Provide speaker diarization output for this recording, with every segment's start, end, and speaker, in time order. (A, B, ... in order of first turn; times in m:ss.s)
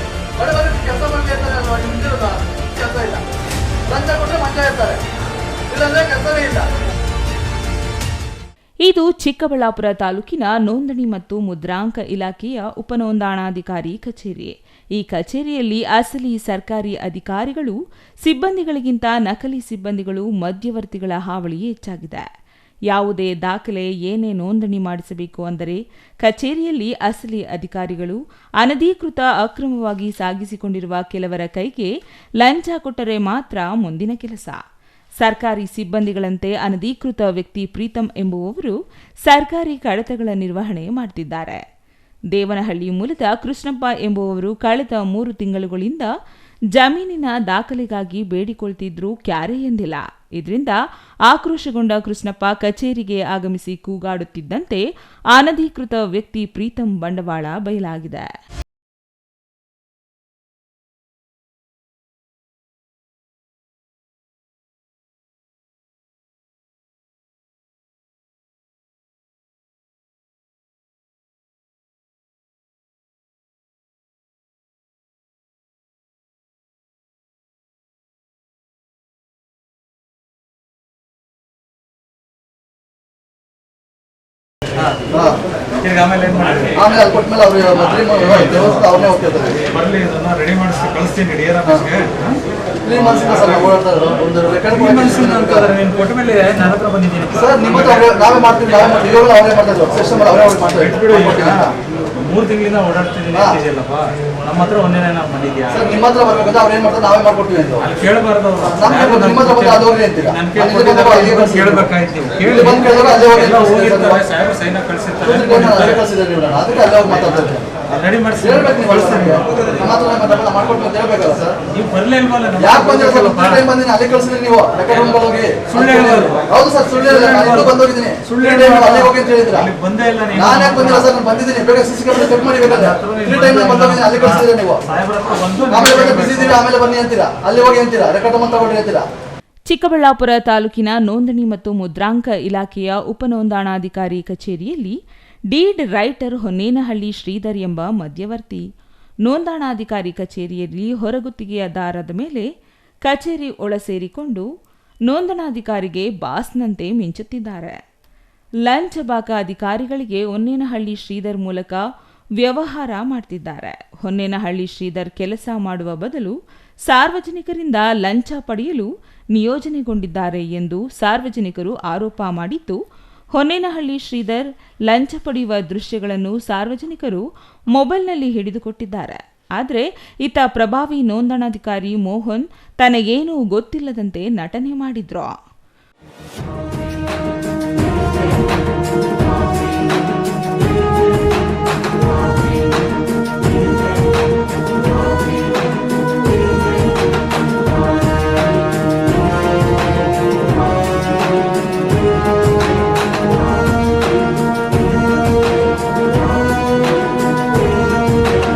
0:00.4-0:03.2 A
0:03.9-0:05.0 A
0:05.7-0:06.7 A
0:08.8-0:22.2 B
0:22.9-0:34.6 B
0:35.2-0:41.6 B
0:42.3-0:46.1 B
0:46.7-0:58.2 B
1:25.1-1:25.4 A
1:25.8-1:26.8 C
1:26.8-1:29.6 A
1:28.3-1:28.7 C
1:29.6-1:32.4 C
1:32.8-1:35.7 A
1:33.2-1:33.5 C
1:34.7-1:38.0 C
1:37.3-1:41.7 A
1:40.7-1:45.9 C
1:43.3-1:43.6 A
1:45.7-1:47.9 A
1:47.8-1:56.1 C
1:48.7-1:51.9 A
1:52.4-1:54.2 A
1:55.2-1:57.7 A
1:57.0-1:59.9 C
1:58.4-2:01.6 A
2:01.7-2:03.7 C
2:02.6-2:09.7 A
2:04.9-2:11.2 C
2:10.3-2:14.8 A
2:12.6-2:16.7 C
2:15.7-2:19.0 A
2:19.7-2:25.0 B
2:25.5-2:28.6 B
2:29.2-2:32.5 B
2:33.1-2:34.4 B
2:35.1-2:37.8 B
2:38.6-2:41.8 B
2:42.4-2:46.3 B
2:46.9-2:52.8 B
2:53.3-3:05.3 B